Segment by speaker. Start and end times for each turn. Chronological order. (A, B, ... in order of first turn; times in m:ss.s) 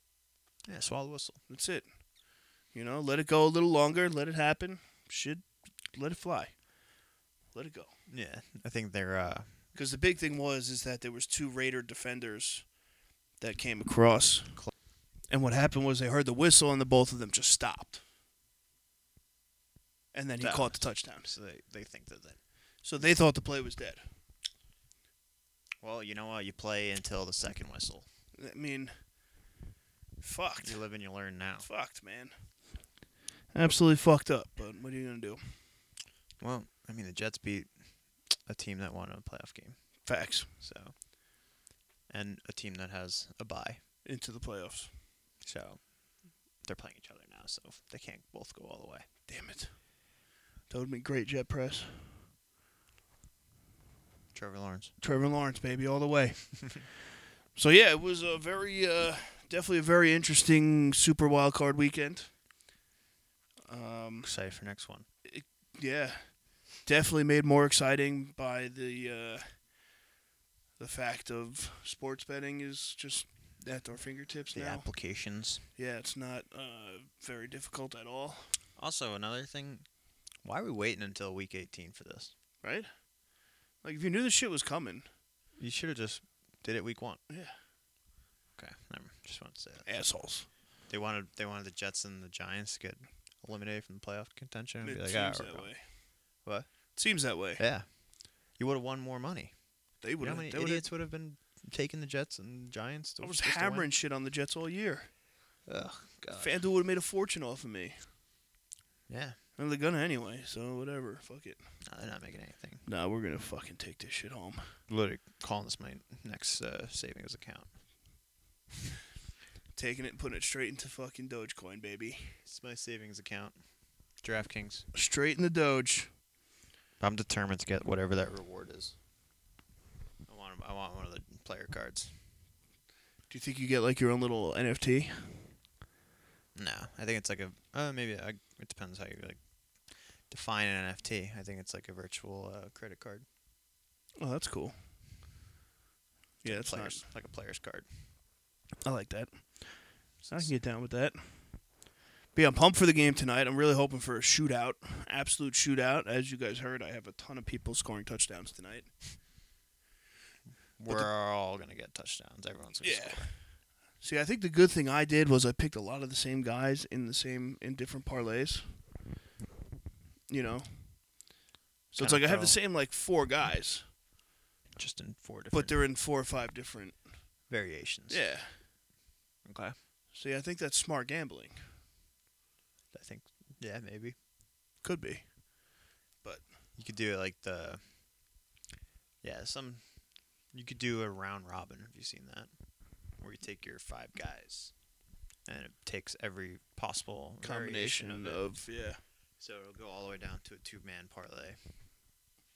0:00.6-0:01.4 A
0:01.5-0:02.0 B
0:02.7-0:06.6 B
0:07.5-0:07.9 B
0:08.1-0:09.7 A
0:09.7-0:12.7 B
0:13.4-0:14.6 B
0:15.3-0:18.0 B
0:20.1-0:21.3 B
0:20.4-0:22.4 A
0:22.8-0:24.0 B
0:25.8-0:28.1 A
0:28.3-0:28.9 B
0:30.2-0:30.8 B
0:30.6-0:31.7 A
0:31.6-0:32.3 B
0:33.5-0:35.6 B
0:36.4-0:39.8 A
0:40.0-0:40.5 B
0:40.6-0:40.9 A
0:42.1-0:43.8 A
0:44.0-0:44.9 B
0:45.4-0:49.1 A
0:49.3-0:49.8 B
0:50.7-0:52.1 B
0:54.3-0:54.9 A
0:55.0-0:56.9 B
0:57.5-1:02.3 B
1:03.6-1:04.3 B
1:04.2-1:05.0 A
1:05.2-1:09.6 B
1:10.8-1:14.9 B
1:14.5-1:15.6 A
1:15.8-1:18.6 B
1:18.8-1:19.8 A
1:20.4-1:22.3 A
1:22.6-1:22.9 B
1:23.8-1:25.0 B
1:25.6-1:27.2 A
1:27.3-1:27.6 B
1:28.6-1:29.9 A
1:29.8-1:30.5 B
1:30.9-1:35.7 A
1:34.8-1:35.8 B
1:36.4-1:36.7 A
1:37.0-1:37.6 B
1:37.6-1:43.9 A
1:40.0-1:40.8 B
1:43.2-1:45.1 B
1:45.7-1:46.6 A
1:46.3-1:48.0 B
1:49.1-1:49.4 A
1:49.6-1:51.6 B
1:51.8-1:52.8 A
1:52.8-1:54.7 B
1:54.9-1:57.8 A
1:59.7-2:02.4 B
2:02.4-2:03.6 A
2:04.2-2:04.8 A
2:04.9-2:06.1 B
2:07.0-2:09.0 A
2:10.2-2:12.2 A
2:13.3-2:15.5 B
2:16.5-2:23.2 A
2:24.2-2:24.7 B
2:26.4-2:27.1 B
2:26.4-2:27.9 A
2:28.8-2:31.7 B
2:30.2-2:30.6 A
2:32.3-2:38.9 B
2:40.8-2:43.3 A
2:42.8-2:48.8 B
2:50.3-2:51.2 B
2:51.9-2:53.9 B
2:52.0-2:52.6 A
2:54.8-2:55.8 A
2:55.5-2:57.0 B
2:57.5-2:58.3 A
2:58.1-2:58.6 B
2:59.4-2:59.8 A
3:00.1-3:01.6 B
3:02.9-3:04.2 A
3:04.8-3:05.5 B
3:06.8-3:07.9 A
3:09.2-3:09.9 A
3:10.5-3:12.5 A
3:13.1-3:14.7 A
3:15.4-3:18.5 A
3:17.4-3:19.0 B
3:19.4-3:21.6 A